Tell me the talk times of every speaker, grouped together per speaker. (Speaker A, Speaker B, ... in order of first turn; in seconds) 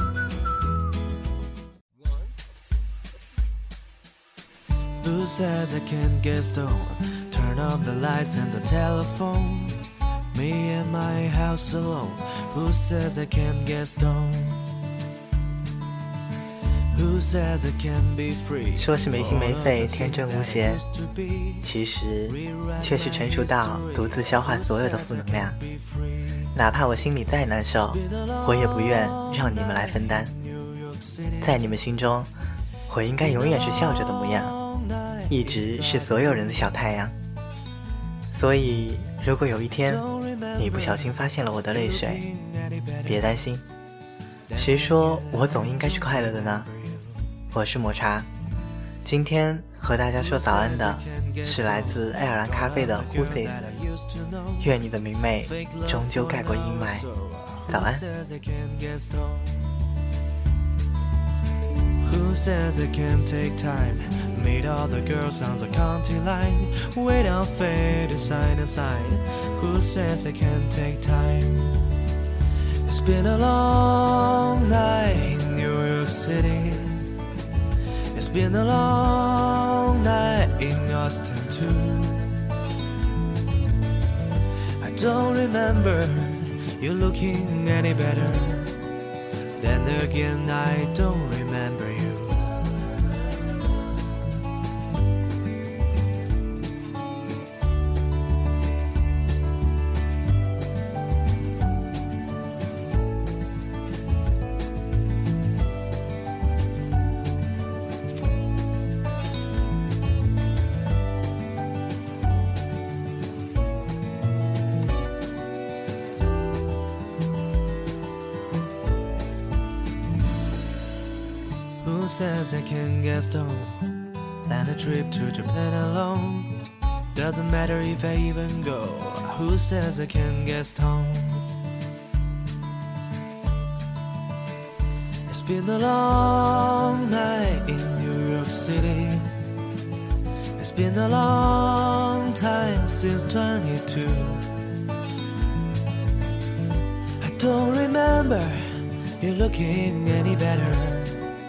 Speaker A: 5.0-14.7, 16.9-21.7, 22.3-26.4, 27.9-31.7, 33.1-36.7, 39.8-43.3, 44.5-47.2, 50.2-54.8, 55.4-59.8, 62.0-71.9, 72.8-77.1, 78.1-82.4, 84.8-88.8, 89.6-92.5, 121.8-123.9, 124.4-126.6, 127.1-131.5, 135.3-139.3, 140.6-144.5, 147.2-151.3
Speaker B: 18.7-20.8, 21.6-25.6, 26.6-30.3, 31.4-32.3, 32.9-34.5, 35.3-37.1, 38.3-40.0, 40.5-42.2, 43.0-43.6, 44.6-46.7, 47.5-48.3, 49.0-53.6, 54.6-57.1, 57.7-58.0